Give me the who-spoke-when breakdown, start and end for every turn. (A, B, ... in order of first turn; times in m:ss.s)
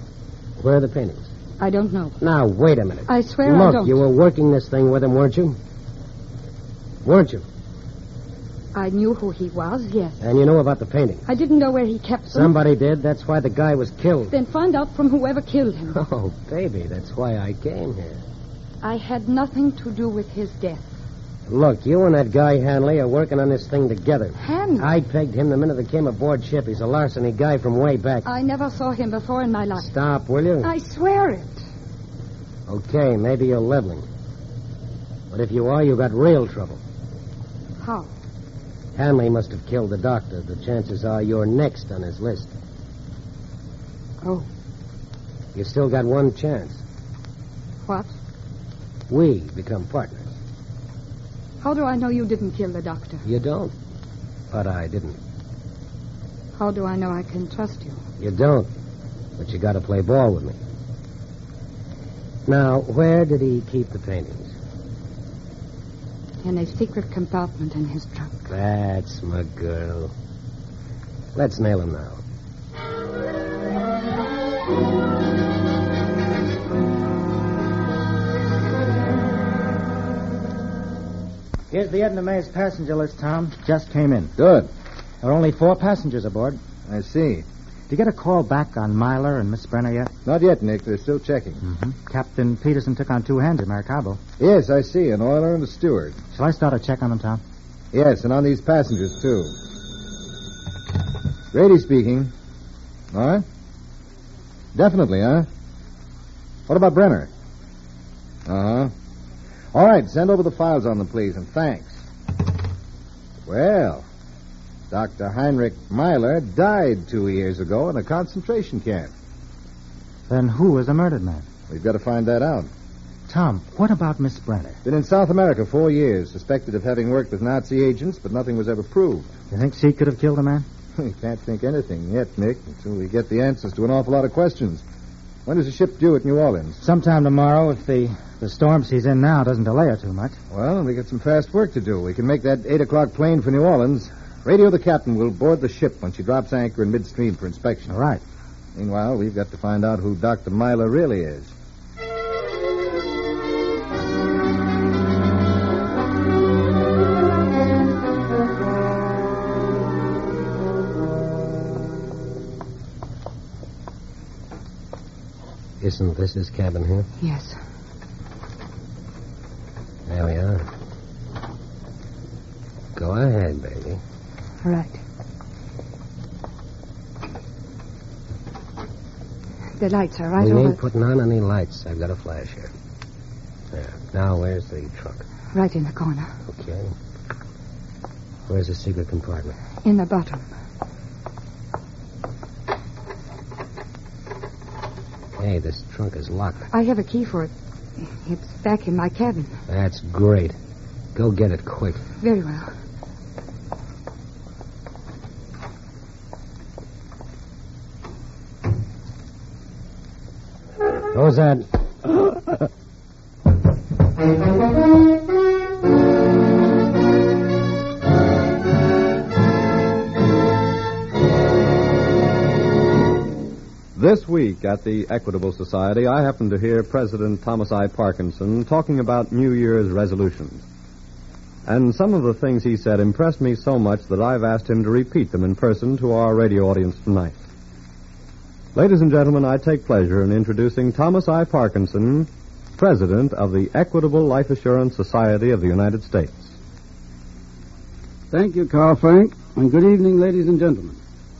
0:00.6-0:01.3 A
0:01.6-0:02.2 B
0:02.2-0:05.6 A
0:03.1-0:04.0 B
0:07.0-0:07.4 A
0:08.7-0:10.3 B
0:10.2-0:11.2 A
0:11.2-0:12.6 B
0:12.3-0:14.3 A
0:14.3-0:16.0 B
0:15.9-0:18.2 A
0:18.8-0:20.9 B
0:21.5-0:28.3 A
0:24.4-0:24.9 B
0:28.2-0:29.9 B
0:29.8-0:30.7 A
0:30.6-0:31.6 B
0:32.7-0:34.1 A
0:35.3-0:36.8 A
0:37.8-0:38.1 B
0:38.9-0:42.5 A
0:44.2-0:44.5 B
0:45.5-0:46.8 A
0:47.8-0:48.1 B
0:49.1-0:50.3 A
0:51.6-0:53.2 B
0:53.2-0:53.7 A
0:54.5-0:55.2 A
0:56.6-0:58.0 B
0:58.2-0:58.7 A
0:59.4-1:00.6 A
1:02.4-1:04.5 A
1:06.4-1:08.5 B
1:08.5-1:10.1 A
1:11.3-1:12.2 A
1:21.7-1:24.3 C
1:24.4-1:24.7 D
1:25.2-1:26.6 C
1:26.8-1:27.4 D
1:27.9-1:30.1 C
1:30.2-1:31.6 D
1:31.6-1:34.2 C
1:34.4-1:36.2 D
1:36.3-1:37.4 C
1:37.9-1:39.5 D
1:41.5-1:42.3 D
1:43.1-1:43.4 D
1:44.7-1:45.5 D
1:46.7-1:47.3 D
1:48.4-1:48.9 D
1:49.7-1:52.0 D
1:53.5-1:54.0 D
1:54.9-1:59.1 D
2:00.3-2:01.4 C
2:01.7-2:02.7 D
2:03.3-2:04.8 C
2:04.8-2:09.3 D
2:09.5-2:10.6 C
2:11.0-2:14.8 D
2:15.4-2:16.8 D
2:16.8-2:20.4 C
2:20.5-2:27.9 D
2:27.9-2:28.2 C
2:28.8-2:31.5 D
2:45.8-2:47.1 A
2:47.2-2:47.6 B
2:50.1-2:50.6 A
2:52.9-2:54.0 A
2:54.6-2:55.0 B
2:59.8-3:00.8 B
3:00.4-3:02.7 A
3:03.7-3:05.3 A
3:05.5-3:06.3 B
3:06.4-3:06.9 A
3:08.5-3:09.6 A
3:09.8-3:10.5 B
3:15.4-3:16.6 A
3:16.7-3:19.6 B
3:19.7-3:20.6 A
3:21.1-3:22.0 A
3:22.2-3:22.7 B
3:31.1-3:31.7 A
3:43.9-3:50.6 E
3:51.6-3:57.4 E
3:58.7-4:06.6 E
4:08.3-4:11.0 F